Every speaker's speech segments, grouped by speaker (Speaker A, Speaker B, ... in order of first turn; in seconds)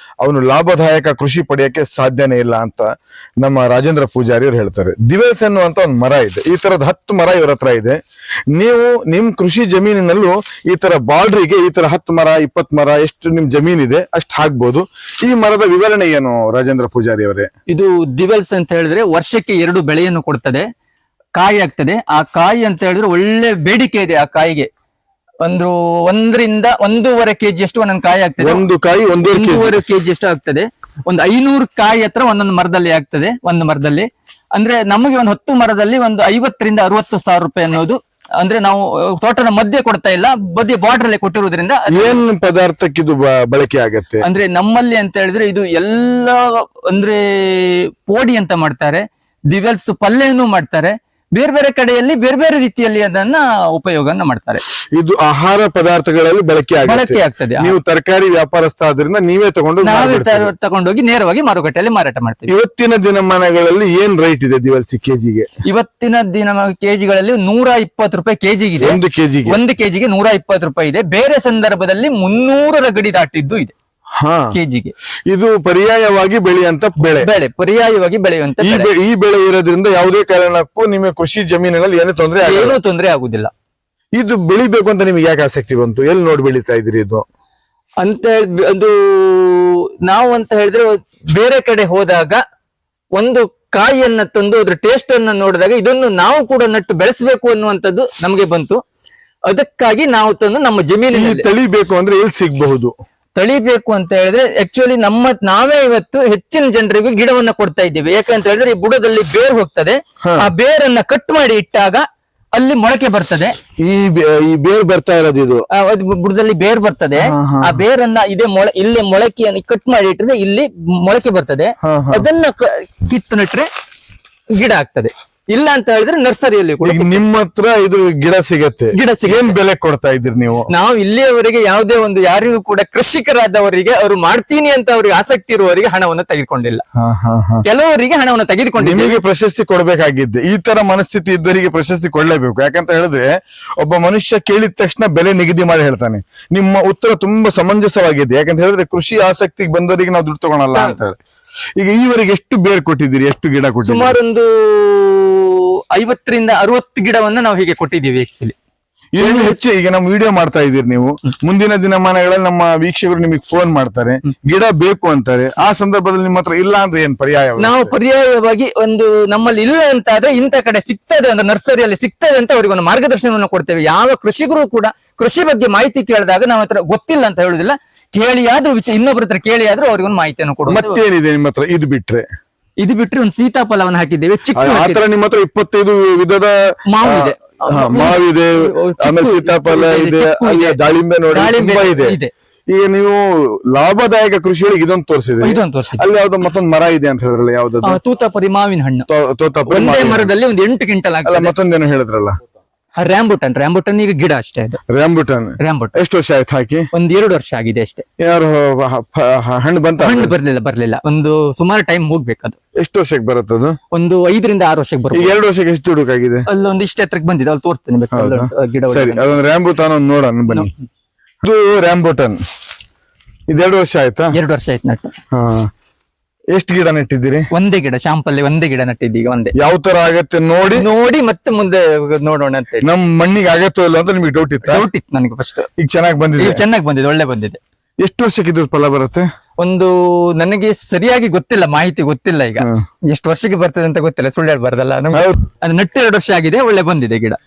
Speaker A: 0.2-2.9, 3.4-8.0, 8.5-17.5, 28.4-29.8, 41.9-44.2, 54.9-60.5, 62.5-65.5, 68.8-69.6, 74.2-74.5, 75.3-77.3, 78.6-82.8, 84.2-87.2, 101.1-102.9, 110.2-110.5, 113.8-115.6, 117.2-117.8, 121.8-122.2, 126.8-130.7, 137.0-137.6, 138.8-151.2, 151.8-154.2, 159.1-167.9, 180.7-182.2, 184.5-192.2, 192.7-193.2, 193.7-198.0, 199.1-200.3, 201.2-202.3, 204.9-206.9, 208.2-210.3, 212.8-213.8, 215.1-216.5, 218.1-220.7, 221.4-222.4, 223.5-224.3, 225.3-225.7, 226.5-227.5, 229.5-230.9, 232.8-234.8, 235.8-236.6, 238.0-239.3, 242.6-242.8, 245.1-245.4
Speaker B: 17.7-20.6, 21.4-24.7, 25.4-28.6, 29.3-42.2, 44.2-54.6, 56.8-57.7, 59.8-62.5, 65.6-73.7, 74.5-74.9, 77.0-78.9, 82.4-83.5, 88.0-92.4, 93.2-98.8, 99.5-101.5, 103.3-113.5, 115.7-123.7, 124.5-127.2, 128.9-129.5, 130.7-136.8, 137.6-139.2, 153.8-158.6, 159.2-159.6, 167.6-181.0, 182.8-185.0, 186.9-190.8, 191.3-192.3, 195.4-196.0, 197.8-199.1, 199.7-201.5, 203.0-204.8, 205.6-205.9, 206.9-208.0, 210.0-212.6, 213.9-215.4, 216.5-219.3, 224.3-225.1, 227.5-229.5, 230.7-232.9, 234.6-235.7, 236.4-237.6, 239.6-247.4